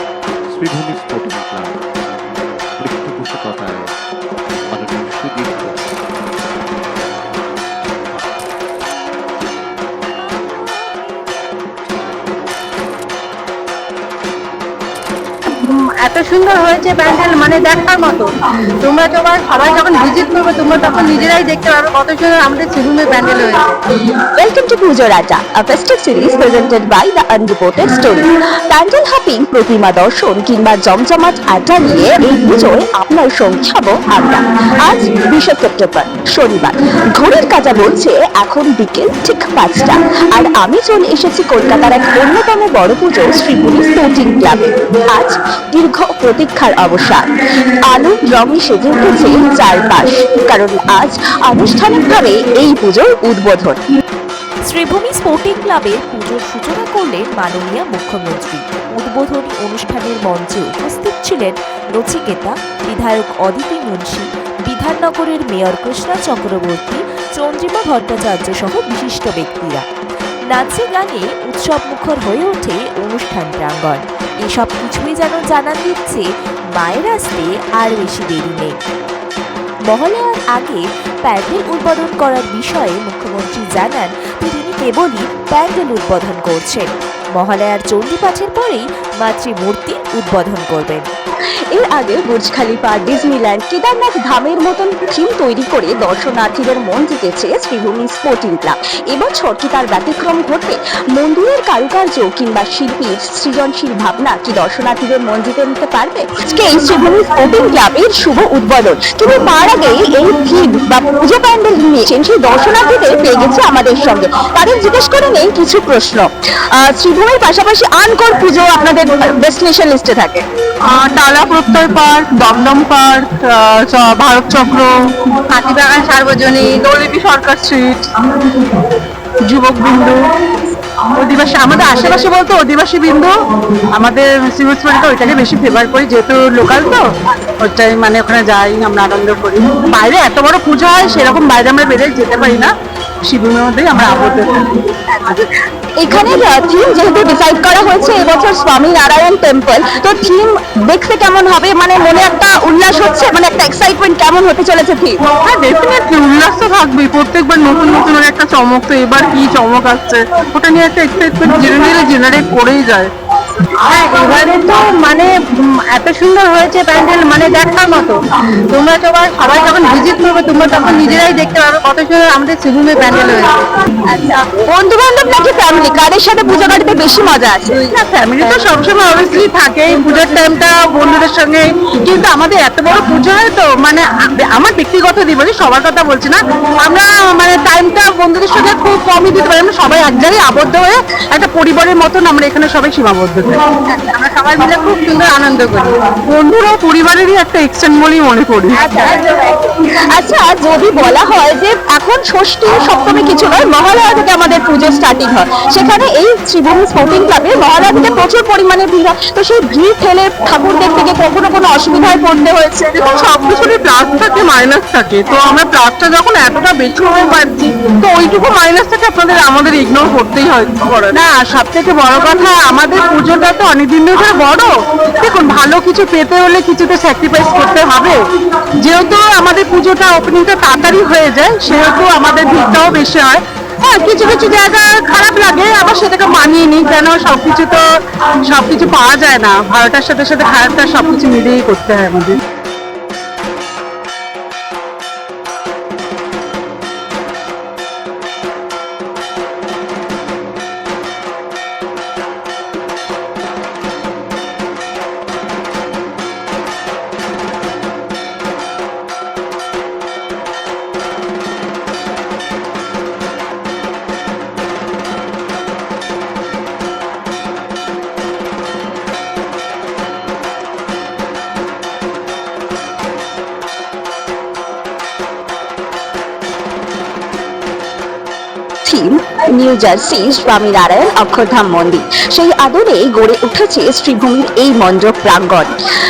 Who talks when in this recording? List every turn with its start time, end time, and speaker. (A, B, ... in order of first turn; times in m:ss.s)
0:00.4-0:01.8 A
0:02.8-0:03.9 A
0:04.7-0:05.8 A
0:15.6-0:23.7 B
0:24.3-0:47.3 C
0:47.9-0:53.8 C
0:54.6-1:09.8 D
1:10.5-1:18.7 D
1:19.9-1:31.0 D
1:31.7-2:00.4 C
2:00.8-2:10.2 B
2:11.1-2:22.7 B
2:23.2-2:24.7 B
2:25.1-2:25.4 C
2:26.0-2:35.2 C
2:35.4-2:53.6 B
2:54.1-2:57.9 C
2:57.8-3:18.8 B
3:18.7-3:33.0 C
3:33.0-3:57.8 B
3:58.4-4:02.4 B
4:38.8-4:45.7 C